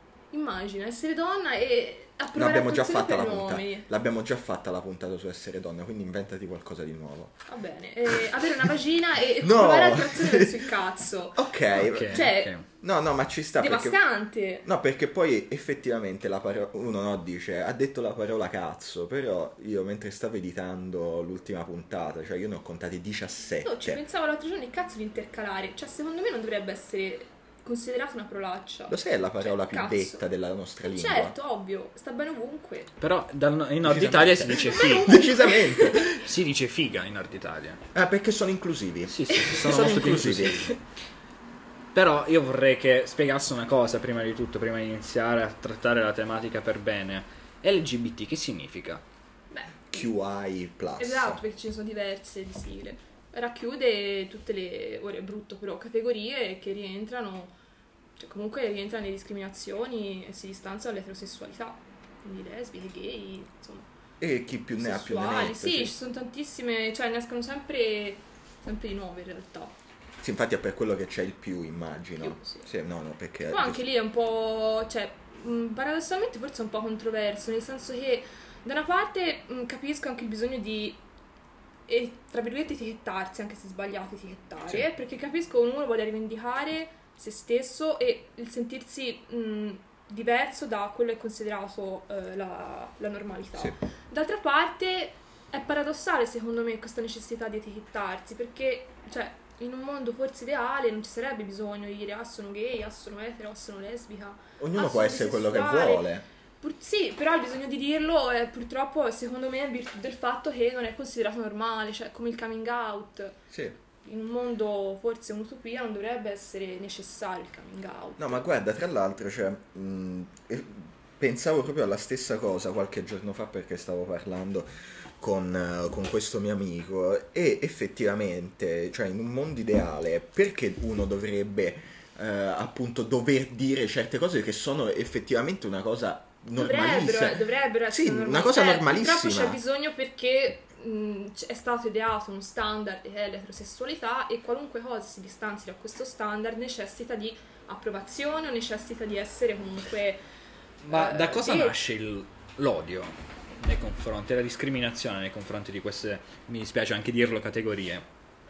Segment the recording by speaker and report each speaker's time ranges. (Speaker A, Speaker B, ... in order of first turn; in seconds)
Speaker A: 0.3-3.9, 7.5-11.4, 12.0-12.5, 13.6-14.7, 23.6-30.2, 30.9-32.9, 34.6-36.1, 39.4-39.6, 49.5-50.1, 51.0-57.5, 58.2-63.9, 64.8-69.8, 72.2-72.7, 73.5-81.0, 81.9-106.1, 106.6-113.4, 114.0-118.4, 136.6-150.2, 150.9-151.8
Speaker B: 2.4-7.3, 9.4-10.7, 11.3-14.0, 14.6-24.0, 28.9-31.4, 33.8-36.3, 37.9-40.7, 49.9-51.4, 64.2-66.0, 70.2-73.9, 104.6-106.2, 113.5-113.8, 118.2-124.7, 125.2-139.6
Speaker C: 11.8-12.7, 33.0-35.1, 36.0-37.8, 39.1-40.7, 41.9-49.0, 150.8-158.1